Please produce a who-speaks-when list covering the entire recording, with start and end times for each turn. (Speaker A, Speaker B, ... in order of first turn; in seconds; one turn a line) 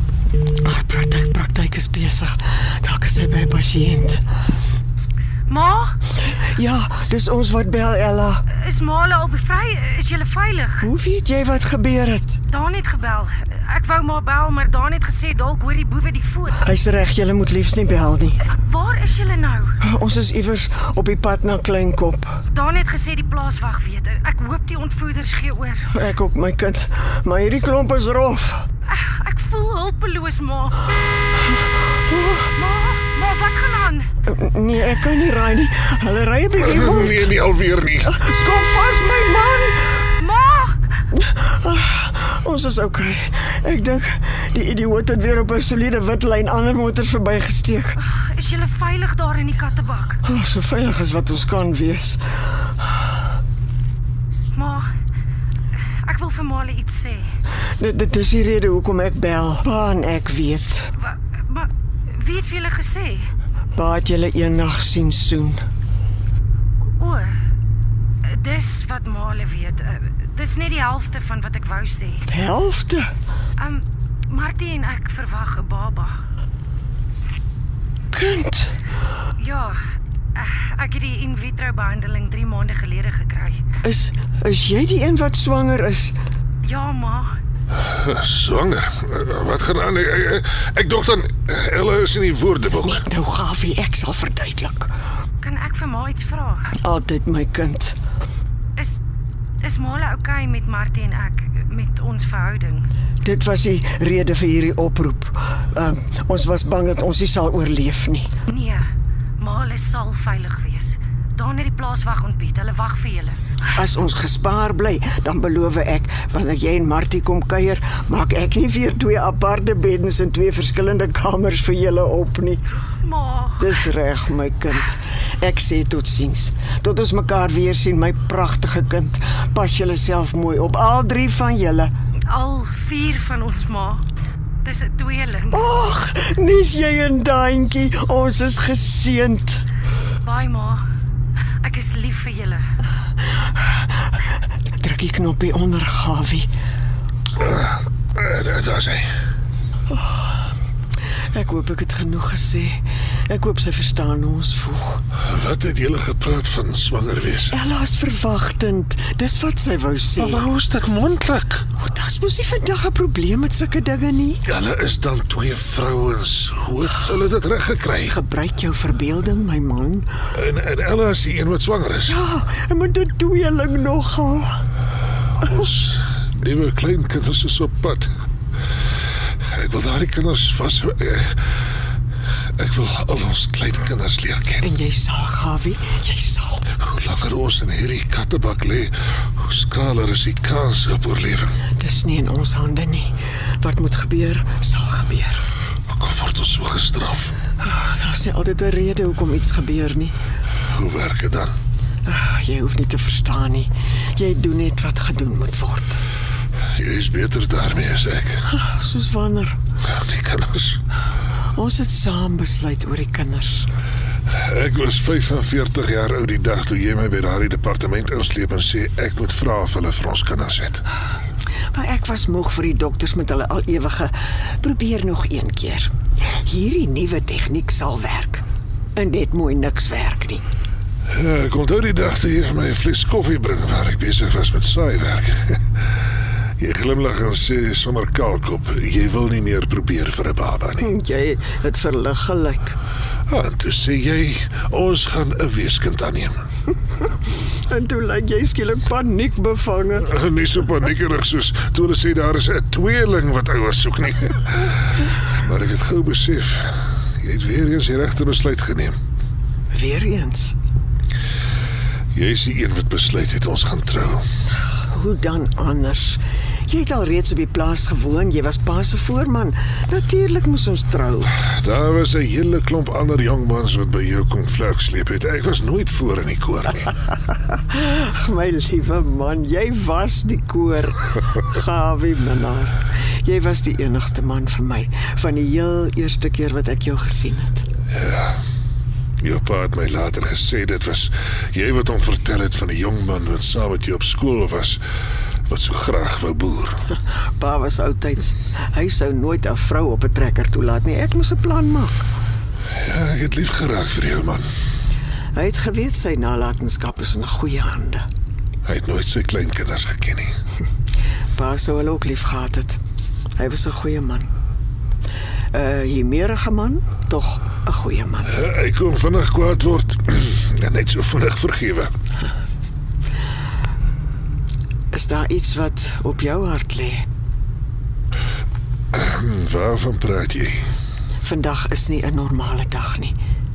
Speaker A: 0.6-4.2
Speaker B: 5.5-6.0
Speaker A: 6.2-8.4
Speaker B: 8.5-10.9
Speaker A: 10.8-12.4
Speaker B: 12.5-16.6
Speaker A: 16.6-18.4
Speaker B: 18.5-19.7
Speaker A: 19.8-22.4
Speaker B: 22.5-25.9
Speaker A: 25.9-28.6
Speaker B: 28.9-30.9
Speaker A: 32.1-32.5
Speaker B: 32.5-34.1
Speaker A: 34.2-37.3
Speaker C: 36.5-38.1
Speaker A: 38.0-40.0
Speaker B: 40.2-40.8
Speaker A: 41.1-48.0
Speaker B: 48.1-50.2
Speaker A: 50.2-52.9
Speaker B: 54.5-54.9
Speaker B: 56.0-57.3
Speaker A: 57.8-60.9
Speaker B: 61.0-63.3
Speaker A: 63.7-65.6
Speaker B: 67.0-67.3
Speaker B: 68.3-72.2
Speaker A: 72.3-73.1
Speaker B: 73.6-76.1
Speaker A: 78.1-78.7
Speaker B: 79.4-79.8
Speaker B: 80.3-83.6
Speaker A: 83.8-86.2
Speaker B: 86.6-87.3
Speaker C: 87.7-93.0
Speaker A: 92.8-94.9
Speaker B: 95.4-96.7
Speaker A: 96.8-98.0
Speaker B: 99.6-102.8
Speaker A: 103.2-108.3
Speaker B: 108.5-108.8
Speaker B: 109.4-113.4
Speaker A: 113.7-122.6
Speaker B: 123.0-123.7
Speaker A: 123.6-131.9
Speaker B: 132.3-134.0
Speaker B: 134.6-135.7
Speaker A: 135.5-139.6
Speaker B: 140.2-140.8
Speaker B: 141.6-142.7
Speaker A: 144.8-146.5
Speaker C: 147.3-149.1
Speaker A: 149.9-150.5
Speaker A: 151.3-155.0
Speaker C: 155.2-157.6
Speaker A: 157.5-160.5
Speaker C: 160.2-161.7
Speaker A: 161.8-164.4
Speaker C: 164.4-168.1
Speaker A: 168.1-170.1
Speaker C: 170.3-172.1
Speaker A: 172.1-174.6
Speaker C: 175.4-178.1
Speaker C: 179.4-181.5
Speaker C: 182.6-184.7
Speaker A: 184.6-186.7
Speaker C: 186.8-191.6
Speaker A: 191.8-195.4
Speaker C: 195.9-197.3
Speaker A: 197.6-200.1
Speaker C: 200.7-201.5
Speaker A: 202.1-206.0
Speaker C: 206.7-208.4
Speaker A: 208.5-209.6
Speaker C: 209.8-210.8
Speaker A: 211.5-213.7
Speaker C: 214.3-220.8
Speaker A: 221.7-228.4
Speaker A: 228.9-230.4
Speaker C: 231.1-235.6
Speaker C: 236.6-240.9
Speaker A: 240.8-242.8
Speaker C: 243.3-246.4
Speaker A: 247.3-250.1
Speaker C: 250.0-254.7
Speaker C: 255.3-259.0
Speaker A: 259.7-260.6
Speaker C: 262.1-264.2
Speaker A: 264.9-271.3
Speaker C: 271.4-276.9
Speaker A: 277.6-287.6
Speaker C: 287.9-288.4
Speaker C: 289.2-294.8
Speaker C: 295.5-296.8
Speaker A: 296.9-302.1
Speaker C: 302.7-304.5
Speaker A: 305.3-308.1
Speaker C: 308.6-310.3
Speaker A: 311.4-312.8
Speaker A: 313.4-314.3
Speaker A: 315.5-318.4
Speaker C: 318.3-321.9
Speaker A: 324.9-327.0
Speaker C: 328.9-330.7
Speaker A: 331.2-333.1